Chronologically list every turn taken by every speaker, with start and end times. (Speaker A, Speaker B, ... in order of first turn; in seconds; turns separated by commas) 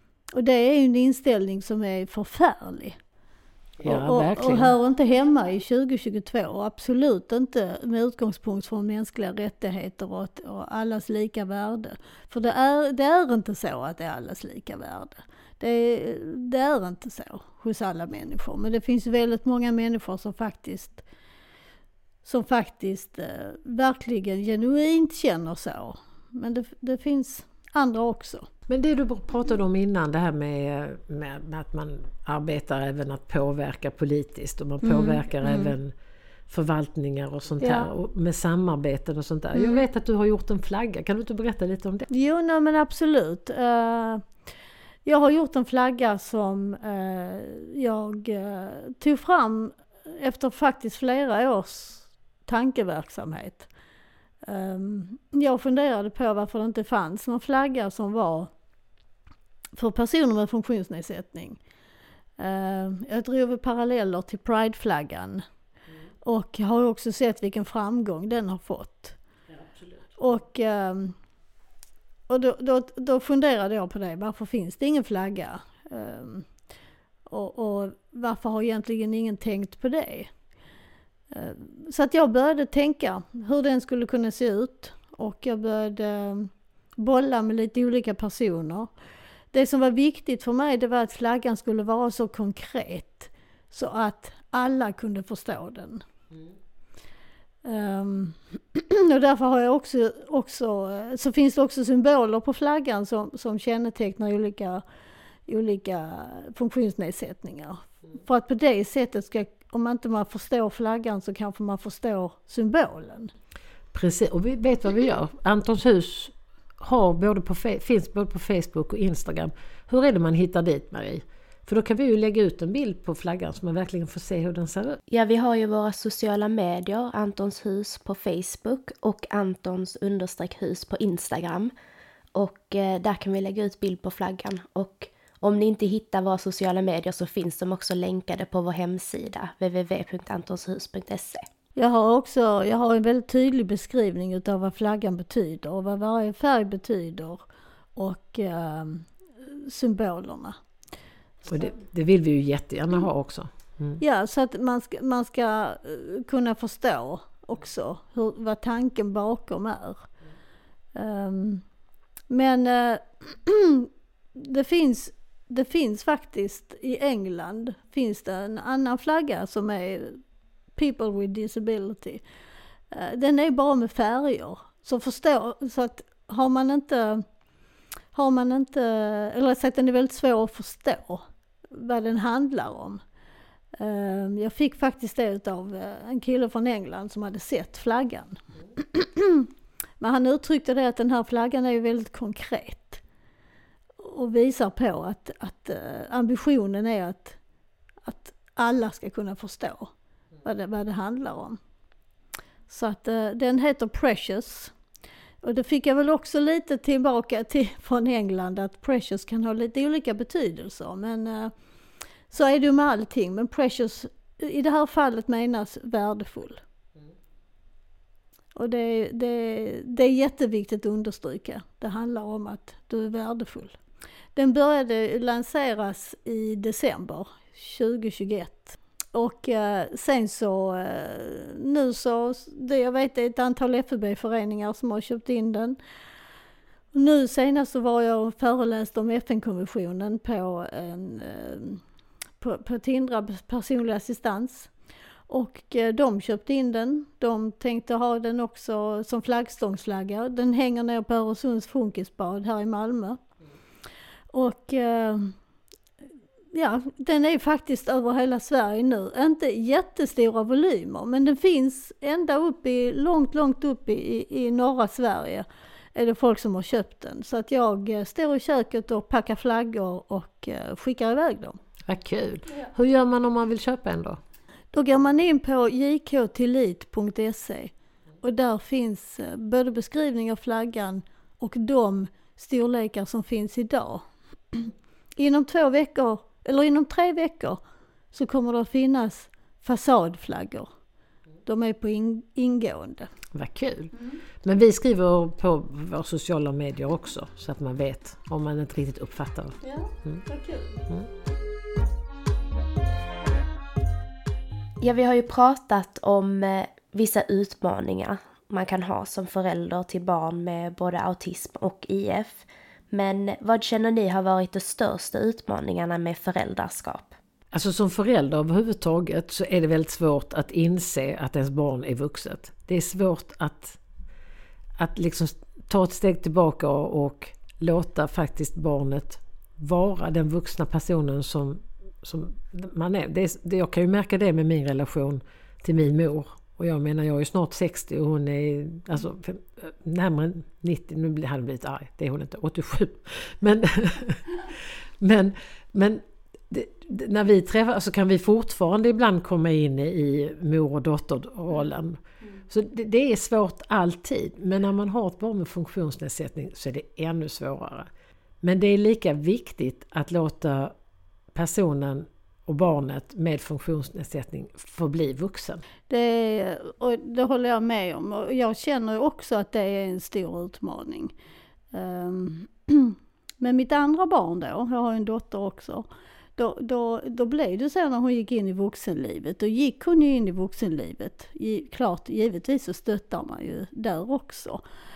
Speaker A: 0.3-3.0, Speaker B: 3.8-4.7, Speaker A: 3.8-21.0, Speaker A: 22.2-28.5, Speaker B: 28.7-35.9, Speaker A: 34.8-35.7, Speaker B: 36.5-42.0, Speaker A: 37.6-37.9, Speaker A: 39.5-39.8, Speaker A: 42.1-44.3, Speaker A: 45.0-53.7, Speaker A: 54.4-58.5, Speaker A: 59.8-61.6, Speaker A: 62.4-65.4, Speaker A: 66.2-69.2, Speaker B: 69.5-70.0, Speaker A: 70.2-71.2, Speaker A: 72.3-76.5, Speaker A: 77.3-80.3, Speaker A: 81.3-88.9, Speaker A: 89.5-96.0, Speaker A: 97.6-104.8, Speaker A: 105.5-113.3, Speaker B: 113.9-125.0, Speaker C: 125.1-131.7, Speaker C: 132.3-141.4, Speaker A: 141.8-147.4, Speaker A: 147.9-150.6, Speaker B: 151.4-154.0, Speaker A: 154.0-160.1, Speaker A: 160.9-161.6, Speaker A: 162.3-170.2, Speaker A: 170.7-172.2, Speaker A: 172.9-177.2, Speaker A: 178.1-183.0, Speaker A: 183.8-189.5, Speaker A: 190.0-193.0, Speaker A: 194.0-197.4, Speaker A: 198.0-199.9, Speaker A: 200.4-201.6, Speaker A: 202.7-204.7, Speaker A: 205.4-211.5, Speaker A: 212.3-216.6, Speaker A: 218.5-223.8, Speaker A: 224.3-235.8, Speaker A: 236.9-241.8, Speaker A: 242.4-244.7, Speaker A: 245.3-253.2, Speaker A: 254.3-255.3, Speaker A: 256.5-271.6, Speaker B: 271.9-274.2, Speaker A: 274.7-290.7, Speaker A: 291.4-293.1, Speaker B: 293.3-300.2, Speaker A: 299.6-300.8, Speaker C: 304.8-317.2, Speaker B: 317.5-323.8, Speaker B: 324.8-357.9, Speaker B: 358.4-360.7, Speaker B: 361.3-365.6, Speaker A: 365.9-371.1, Speaker A: 371.7-384.6